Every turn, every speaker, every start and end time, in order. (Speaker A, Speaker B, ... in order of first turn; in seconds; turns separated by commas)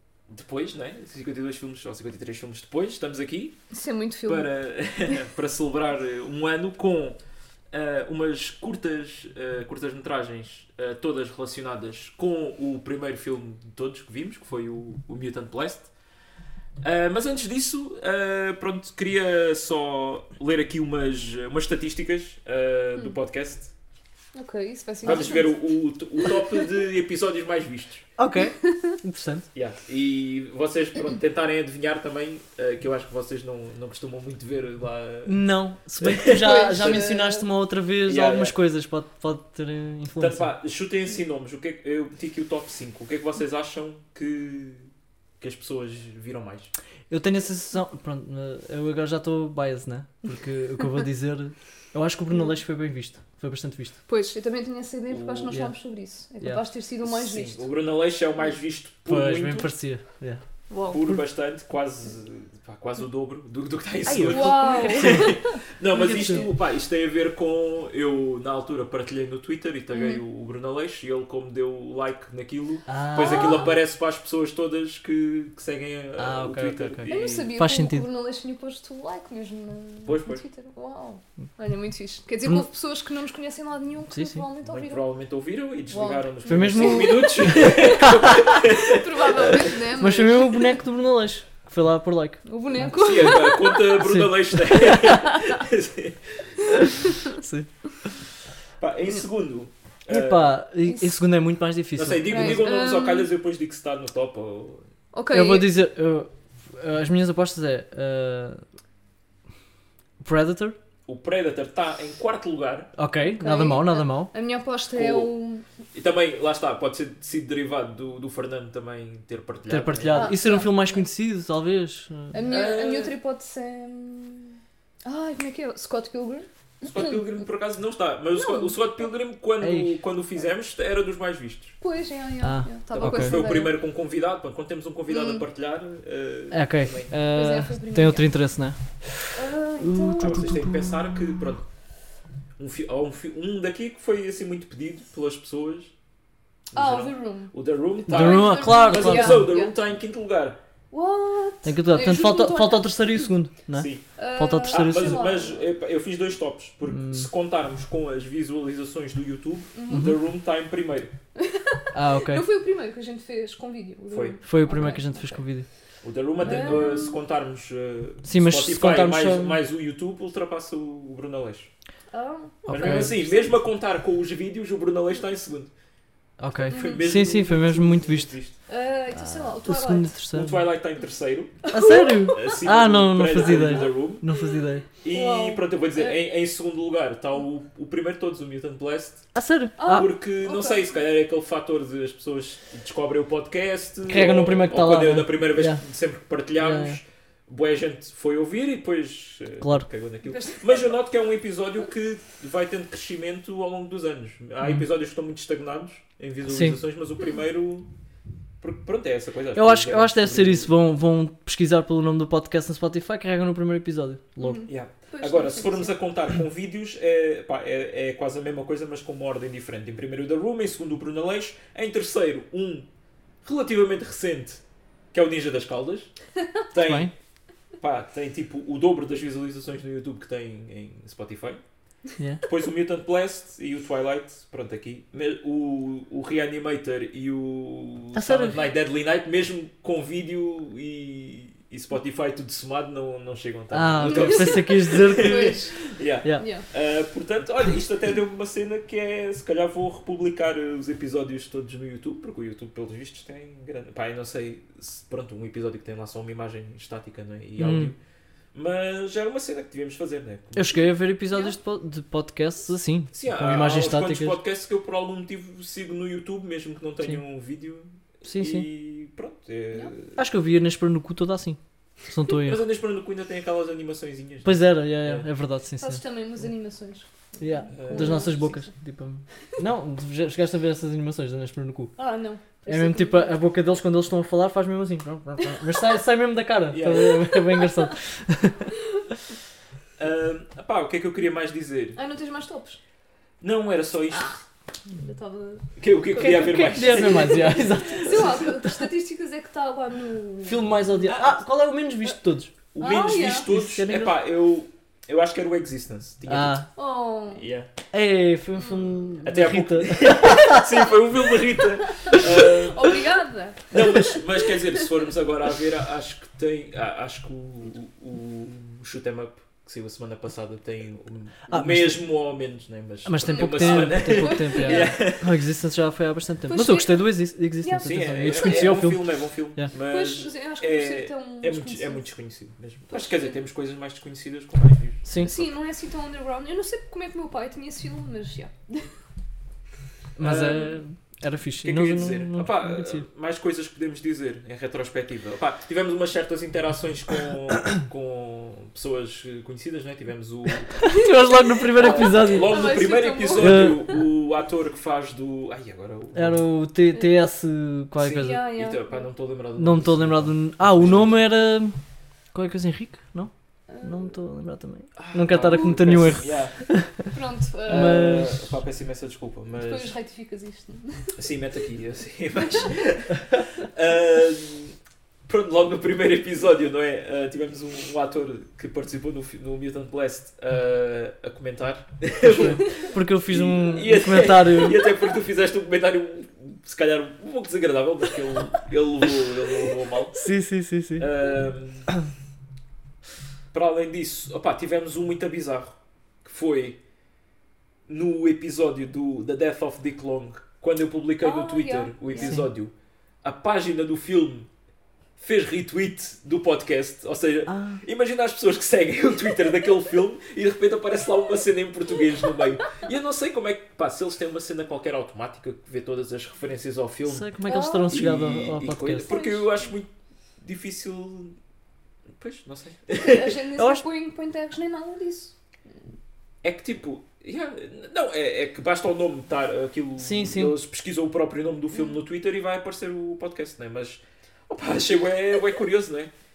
Speaker A: 0.3-3.6, Speaker B: 3.7-4.5, Speaker A: 4.3-7.2, Speaker A: 7.7-15.9, Speaker A: 16.8-23.7, Speaker B: 24.4-25.6, Speaker A: 25.0-28.1, Speaker B: 26.2-26.7, Speaker C: 28.2-29.5, Speaker B: 28.6-28.9, Speaker A: 29.5-37.0, Speaker C: 35.3-40.5, Speaker B: 36.3-37.5, Speaker A: 38.1-38.6, Speaker A: 40.2-46.7, Speaker C: 47.1-54.0, Speaker B: 54.1-57.7, Speaker A: 55.1-55.5, Speaker C: 55.5-55.7, Speaker A: 57.0-59.7, Speaker C: 59.1-61.2, Speaker B: 60.7-61.0, Speaker A: 60.9-77.5, Speaker C: 64.0-65.3, Speaker B: 64.2-65.5, Speaker C: 65.9-66.5, Speaker B: 69.9-70.2, Speaker C: 72.9-73.7, Speaker B: 73.2-73.7, Speaker C: 76.2-78.0, Speaker B: 77.1-85.0, Speaker A: 80.0-80.4, Speaker C: 84.1-84.4, Speaker A: 84.7-89.8, Speaker B: 85.9-90.8, Speaker C: 86.5-88.6, Speaker C: 90.0-95.3, Speaker B: 92.5-94.0, Speaker A: 92.9-96.5, Speaker B: 95.0-95.6, Speaker B: 96.8-97.3, Speaker C: 97.1-98.1, Speaker A: 98.8-100.5, Speaker C: 100.1-102.7, Speaker B: 100.9-101.2, Speaker A: 102.0-104.9, Speaker B: 102.3-103.3, Speaker B: 105.1-105.7, Speaker C: 105.3-108.7, Speaker C: 110.2-110.8, Speaker A: 111.1-112.9, Speaker C: 113.0-114.3, Speaker B: 113.3-115.6, Speaker A: 114.9-115.3, Speaker A: 115.9-120.3, Speaker C: 119.7-122.4, Speaker B: 120.1-121.0, Speaker B: 122.3-127.2, Speaker A: 122.4-123.1, Speaker A: 126.8-131.8, Speaker B: 128.3-128.8, Speaker C: 129.6-130.0, Speaker B: 131.8-133.7, Speaker C: 132.4-133.3, Speaker A: 132.9-137.1, Speaker B: 135.1-135.4, Speaker C: 136.5-140.9, Speaker B: 137.3-138.3, Speaker B: 139.3-140.5, Speaker A: 140.2-141.7, Speaker A: 142.6-145.9, Speaker A: 146.7-150.6, Speaker B: 146.7-147.5, Speaker C: 148.1-149.5, Speaker B: 148.1-149.7, Speaker B: 150.9-153.3, Speaker C: 151.6-155.2, Speaker A: 153.7-154.1, Speaker B: 154.2-155.7, Speaker A: 154.7-161.1, Speaker C: 156.9-157.3, Speaker B: 159.8-160.2, Speaker C: 159.9-160.2, Speaker B: 161.4-165.4, Speaker C: 161.9-162.5, Speaker A: 164.1-164.4, Speaker C: 164.4-165.7, Speaker A: 166.0-171.7, Speaker B: 166.4-167.2, Speaker C: 168.2-169.6, Speaker B: 172.1-173.5, Speaker C: 172.7-173.2, Speaker A: 172.7-175.7, Speaker C: 176.4-178.3, Speaker A: 176.5-178.6, Speaker B: 176.7-177.1, Speaker B: 178.7-180.2, Speaker C: 179.1-180.6, Speaker A: 180.3-181.7, Speaker B: 181.6-182.6, Speaker C: 181.7-184.8, Speaker A: 182.3-184.2, Speaker B: 183.5-183.9, Speaker A: 185.0-189.3, Speaker B: 185.1-186.2, Speaker C: 189.3-190.1, Speaker B: 189.8-190.9, Speaker A: 189.9-207.9, Speaker C: 194.1-195.8, Speaker C: 196.6-197.0, Speaker C: 199.6-199.9, Speaker B: 200.3-200.9, Speaker C: 206.5-206.8, Speaker A: 208.6-210.7, Speaker C: 209.6-214.6, Speaker B: 214.4-215.9, Speaker A: 214.7-222.9, Speaker A: 223.4-224.6, Speaker A: 225.1-226.1, Speaker A: 226.7-227.1, Speaker C: 226.8-227.1, Speaker A: 227.8-231.6, Speaker C: 232.2-232.5, Speaker A: 232.5-258.0, Speaker C: 238.1-238.6, Speaker C: 243.7-245.6, Speaker B: 244.0-245.8, Speaker B: 246.4-246.7, Speaker C: 257.6-257.9, Speaker A: 258.5-260.8, Speaker C: 260.6-264.4, Speaker B: 261.3-261.6, Speaker A: 263.1-270.2, Speaker C: 268.2-268.7, Speaker C: 270.2-272.6, Speaker A: 272.4-275.3, Speaker C: 274.4-276.0, Speaker B: 275.8-278.7, Speaker C: 277.4-281.9, Speaker A: 277.7-278.4, Speaker B: 282.0-283.4, Speaker C: 282.7-288.7, Speaker A: 286.7-287.4, Speaker A: 290.0-292.0, Speaker B: 292.0-292.8, Speaker A: 293.4-294.4, Speaker B: 294.1-301.2, Speaker A: 295.8-298.4, Speaker C: 296.2-298.8, Speaker C: 300.4-302.5, Speaker A: 302.7-306.7, Speaker B: 302.8-303.5, Speaker C: 303.5-304.2, Speaker C: 306.3-306.7, Speaker B: 306.8-307.5, Speaker A: 307.3-307.7, Speaker C: 307.9-310.7, Speaker B: 308.6-309.1, Speaker A: 309.2-313.1, Speaker B: 312.0-314.9, Speaker A: 313.7-325.3, Speaker C: 321.5-322.0, Speaker C: 323.1-329.7, Speaker B: 323.3-325.0, Speaker B: 326.5-327.0, Speaker B: 327.6-328.9, Speaker A: 327.8-335.5, Speaker B: 329.8-332.1, Speaker B: 332.9-333.3, Speaker C: 335.1-335.3, Speaker B: 335.2-338.9, Speaker C: 340.2-343.1, Speaker A: 340.2-340.8, Speaker A: 341.6-350.9, Speaker C: 350.9-352.7, Speaker B: 350.9-354.0, Speaker A: 351.8-356.4, Speaker C: 353.4-353.9, Speaker C: 356.1-358.4, Speaker A: 358.0-361.2, Speaker B: 358.1-359.1, Speaker C: 359.6-361.8, Speaker C: 362.3-367.1, Speaker B: 363.7-364.1, Speaker A: 365.0-366.8, Speaker B: 367.1-368.2, Speaker A: 367.7-369.9, Speaker C: 367.7-368.4, Speaker B: 369.6-371.2, Speaker A: 371.2-390.2, Speaker B: 372.4-372.7, Speaker C: 382.2-384.8, Speaker C: 390.2-391.1, Speaker A: 391.0-391.9, Speaker A: 393.5-396.8, Speaker A: 397.9-404.5, Speaker B: 401.2-402.4, Speaker C: 402.2-402.5, Speaker A: 405.2-417.3, Speaker C: 407.5-407.8, Speaker C: 417.1-419.1, Speaker B: 417.5-418.0, Speaker A: 417.9-421.4, Speaker B: 419.1-419.7, Speaker A: 422.1-423.4, Speaker B: 422.9-425.4, Speaker C: 423.6-423.9, Speaker A: 426.4-436.1, Speaker C: 430.0-430.6, Speaker B: 431.7-432.0